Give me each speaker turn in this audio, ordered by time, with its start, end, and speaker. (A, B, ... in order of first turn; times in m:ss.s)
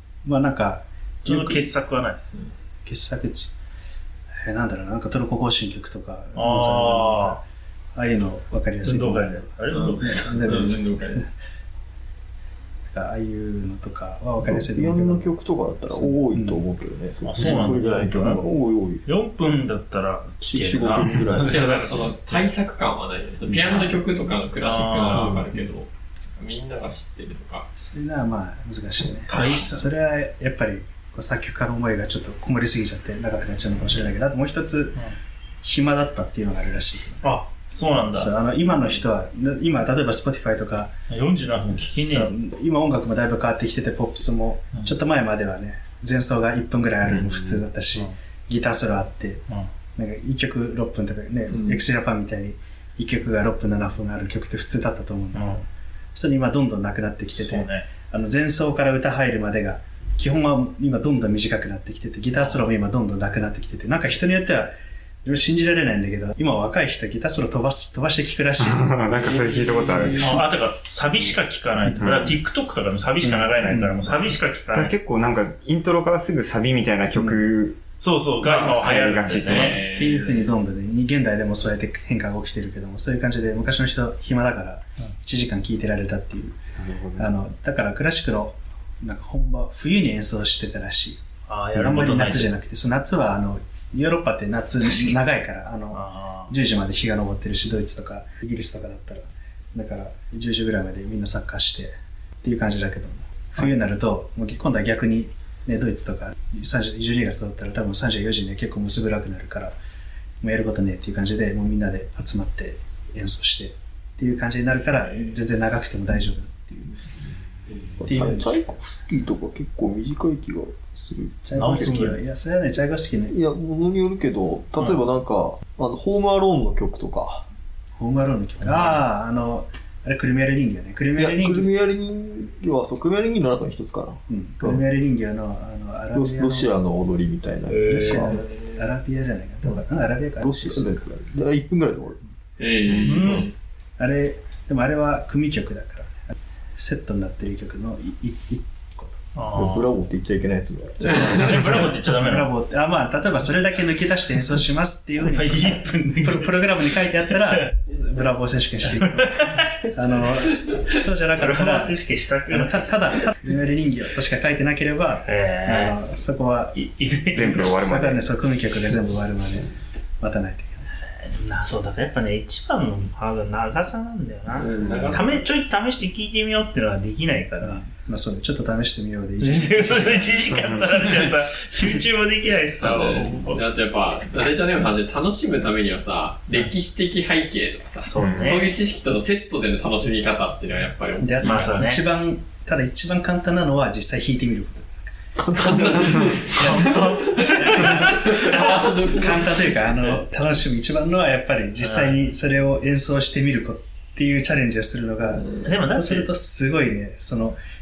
0:00.2-0:01.7 A
0:01.2-0:02.2 B
0:02.9-0:03.5 A
0:04.4-0:07.4 A
0:06.4-0:07.4 B
0:08.0-0:09.4 A
0:08.8-0:10.6 B
0:09.7-0:11.2 C
0:10.0-0:11.2 A
0:12.9-0:15.3 A
0:14.4-0:19.0 D
0:15.9-0:16.6 A
0:17.2-0:18.4 B
0:19.0-0:22.0 B
0:20.4-0:21.6 D
0:21.5-0:27.7 C
0:24.6-0:25.4 B
0:25.1-0:25.5 D
0:27.8-0:35.0 A
0:29.3-0:29.7 D
0:29.3-0:29.8 B
0:35.6-0:37.3 A
0:37.2-0:38.3 B
0:38.1-0:40.9 A
0:41.1-0:42.3 B
0:41.7-0:55.6 A
0:47.1-0:47.6 E
0:51.5-0:51.8 C
0:55.3-0:55.6 B
0:56.1-1:04.7 A
0:57.4-0:57.9 B
1:02.3-1:02.6 B
1:05.2-1:09.3 A
1:08.6-1:10.4 E
1:09.1-1:10.4 C
1:10.2-1:15.0 B
1:12.0-1:12.4 E
1:13.2-1:14.0 E
1:13.7-1:14.2 A
1:14.7-1:17.8 E
1:18.0-1:19.8 B
1:18.4-1:18.8 A
1:18.5-1:19.8 E
1:19.4-1:20.6 C
1:19.9-1:26.6 A
1:26.8-1:27.3 E
1:27.2-1:31.2 A
1:31.5-1:32.5 B
1:31.7-1:49.8 A
1:35.9-1:36.5 B
1:50.4-1:57.0 A
1:58.0-1:58.6 A
1:58.0-2:02.1 D
2:01.4-2:03.3 A
2:01.6-2:02.2 B
2:03.3-2:07.4 D
2:08.0-2:11.7 A
2:08.6-2:09.0 B
2:11.2-2:14.8 D
2:14.3-2:16.7 A
2:16.1-2:18.4 D
2:17.7-2:18.3 B
2:17.9-2:20.9 A
2:20.4-2:22.2 D
2:22.6-2:23.5 C
2:22.9-2:23.5 B
2:24.0-2:26.1 A
2:26.8-2:29.2 A
2:29.4-2:29.9 B
2:29.6-2:31.5 D
2:31.1-2:32.5 B
2:32.0-2:46.8 A
2:35.2-2:37.7 B
2:38.8-2:39.8 B
2:41.4-2:43.1 B
2:45.2-2:46.0 B
2:46.7-2:47.8 B
2:47.3-2:48.2 E
2:47.8-2:49.7 A
2:50.2-2:50.8 A
2:51.2-2:57.8 B
2:54.6-2:55.4 C
2:54.8-2:55.2 E
2:57.6-3:00.9 A
2:59.4-3:03.6 B
3:02.8-3:11.8 C
3:08.0-3:08.7 B
3:08.2-3:08.6 E
3:11.2-3:15.0 A
3:11.4-3:12.0 B
3:15.4-3:17.4 D
3:15.6-3:19.7 C
3:16.6-3:18.2 B
3:17.5-3:27.6 A
3:21.8-3:22.3 B
3:25.6-3:26.3 B